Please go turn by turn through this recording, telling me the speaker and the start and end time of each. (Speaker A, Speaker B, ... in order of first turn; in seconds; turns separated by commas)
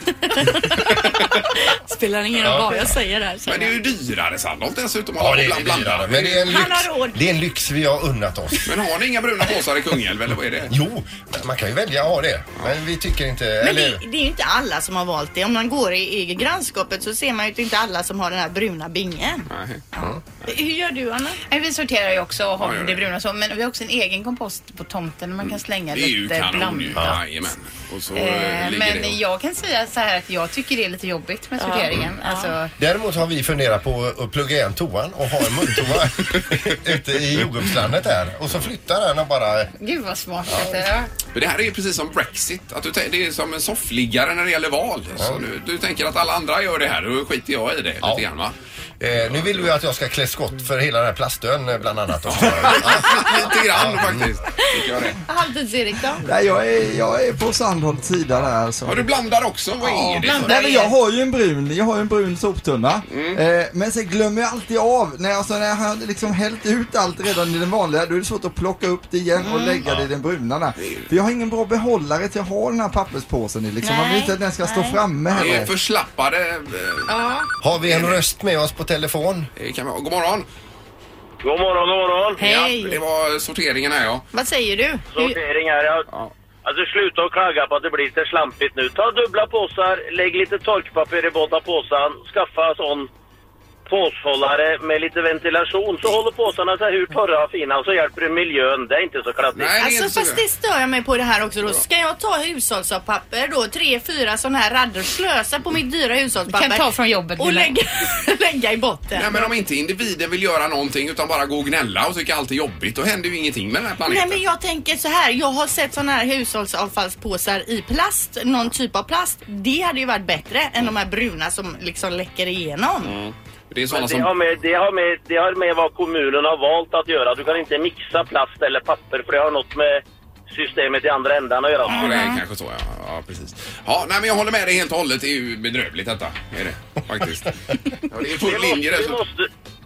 Speaker A: 0.2-3.8, Speaker B: 2.4-2.9, Speaker C: 3.5-6.7, Speaker B: 5.2-8.7, Speaker A: 6.5-7.3, Speaker C: 8.7-10.7, Speaker B: 10.7-14.0, Speaker A: 13.6-21.4, Speaker C: 19.5-19.9, Speaker D: 21.5-27.1, Speaker C: 22.6-23.1, Speaker C: 25.5-29.2, Speaker D: 28.1-32.7, Speaker A: 31.6-32.6, Speaker B: 32.8-39.7, Speaker D: 39.8-41.1, Speaker B: 40.5-40.8, Speaker C: 41.3-48.5, Speaker B: 49.0-54.3, Speaker C: 49.3-49.7, Speaker C: 52.3-55.2, Speaker A: 54.8-56.3, Speaker E: 56.2-59.0, Speaker C: 58.9-60.6, Speaker A: 60.0-60.9, Speaker E: 60.2-75.7, Speaker C: 63.1-63.4, Speaker A: 69.4-69.8, Speaker C: 70.8-71.1, Speaker A: 73.8-75.0, Speaker C: 75.3-77.1, Speaker A: 77.1-77.5, Speaker B: 77.6-79.5, Speaker C: 77.8-78.2, Speaker C: 79.6-80.5, Speaker F: 81.4-82.4, Speaker A: 82.4-83.0, Speaker C: 82.4-84.3, Speaker A: 84.3-85.4, Speaker F: 85.1-86.1, Speaker F: 86.7-93.1, Speaker F: 93.9-99.7, Speaker C: 99.5-100.4, Speaker A: 99.8-106.9, Speaker D: 106.5-107.7, Speaker A: 107.4-109.5, Speaker C: 109.2-114.4, Speaker A: 114.1-123.2, Speaker C: 123.0-124.3, Speaker F: 123.9-132.2, Speaker A: 131.9-132.4, Speaker C: 131.9-139.2, Speaker F: 138.4-139.5